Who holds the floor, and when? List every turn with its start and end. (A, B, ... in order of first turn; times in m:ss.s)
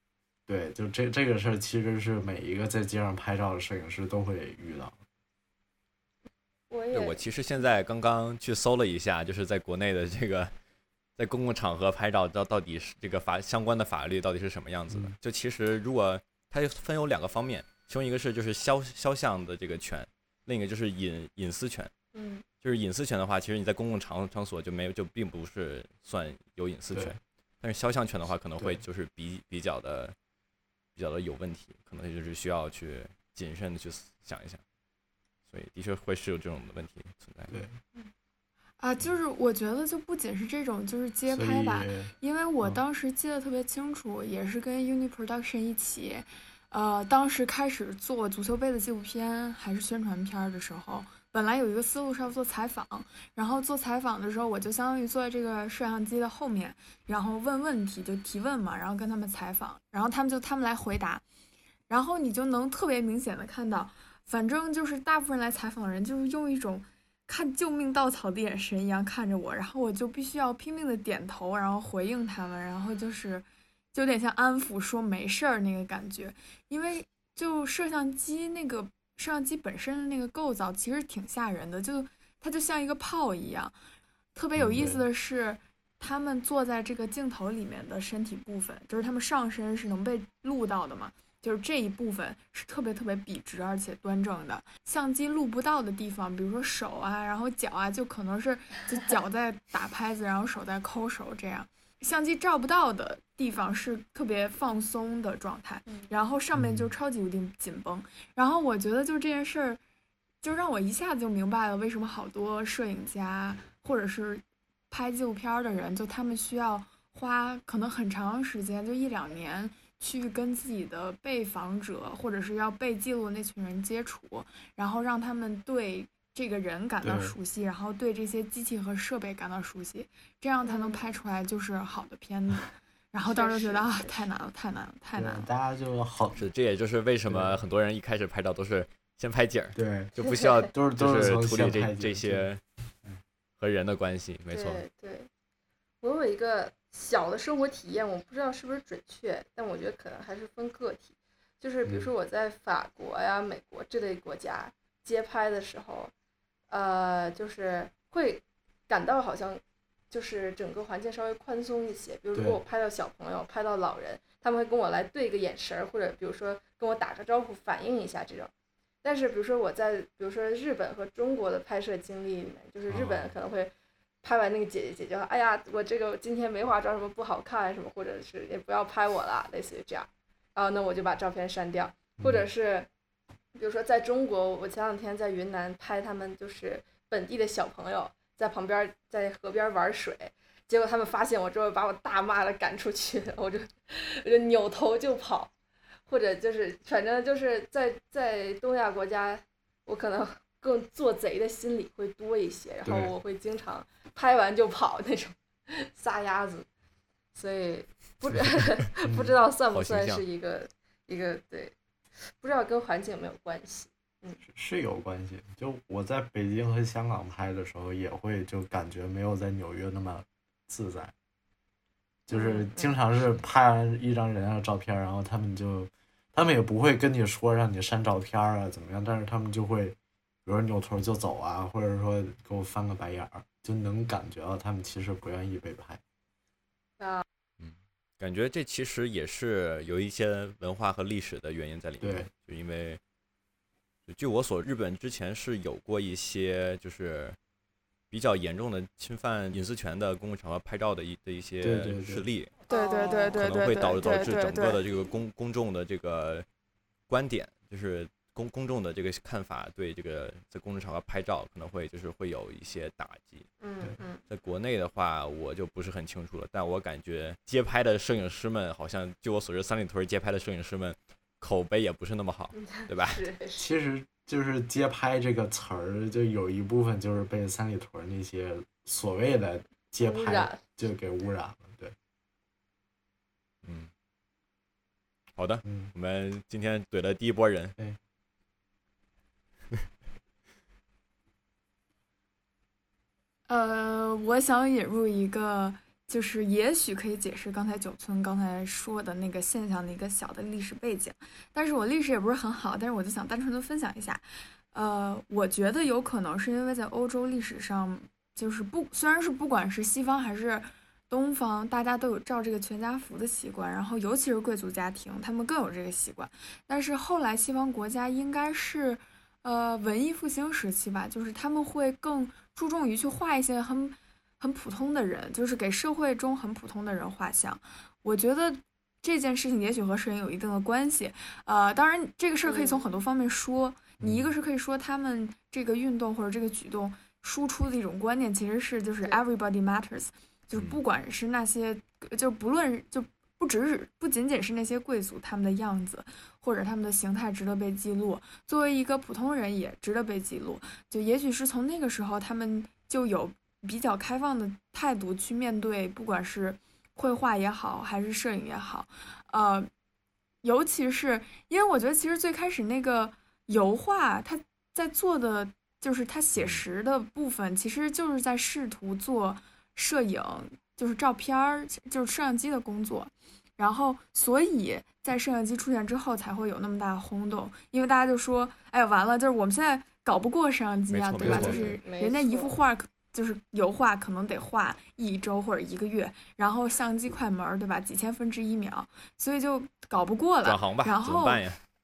0:00.5-0:05.0 A
0:06.7-0:07.3 B
0:06.9-0:10.5 C
0:11.2-0:21.9 C
0:22.1-0:22.4 B
0:22.6-0:30.2 C
0:26.9-0:27.2 A
0:31.0-0:34.6 C
0:35.5-0:37.6 C
0:37.5-0:37.8 A
0:38.8-1:01.2 D
0:41.3-0:42.1 A
1:01.9-1:23.8 D
1:24.4-1:49.8 D
1:24.6-1:25.0 A
1:46.6-1:46.9 A
1:50.4-2:15.5 D
2:07.0-2:07.4 A
2:10.6-2:11.1 B
2:13.3-2:14.1 B
2:15.2-2:16.5 A
2:16.4-2:22.6 C
2:17.3-2:17.6 A
2:19.8-2:20.1 A
2:20.7-2:22.5 A
2:23.6-2:24.8 C
2:24.5-2:25.3 B
2:26.0-2:36.1 B
2:31.9-2:32.1 A
2:36.7-2:48.5 B
2:42.4-2:42.6 A
2:49.0-2:53.7 B
2:52.9-2:53.3 A
2:54.2-3:02.9 B
3:02.2-3:02.5 A
3:03.6-3:15.5 B
3:16.1-3:26.7 B
3:22.8-3:23.1 A
3:27.3-3:34.4 B
3:29.0-3:29.4 A
3:29.7-3:30.2 C
3:34.5-3:41.1 A
3:42.3-3:56.0 A
3:42.3-3:43.1 B
3:57.0-3:57.2 B
3:57.6-4:03.0 C
4:02.0-4:02.3 A
4:04.1-4:07.4 C
4:08.1-4:12.5 C
4:11.6-4:12.3 A
4:12.7-4:13.4 B
4:12.7-4:14.8 D
4:13.3-4:16.5 C
4:14.0-4:15.1 B
4:17.1-4:23.5 C
4:23.6-4:24.2 B
4:24.3-4:33.2 C
4:32.6-4:33.7 B
4:33.6-4:42.0 A
4:40.0-4:40.6 B
4:43.6-4:43.9 C
4:45.4-4:47.8 C
4:45.6-4:45.9 A
4:53.5-5:59.7 D
5:32.4-5:32.9 B
5:34.0-5:34.3 A
5:40.5-5:40.8 C
6:00.4-6:31.4 D
6:06.4-6:06.6 C
6:20.9-6:21.8 C
6:21.2-6:22.5 B
6:21.2-6:21.8 A
6:30.4-6:31.6 C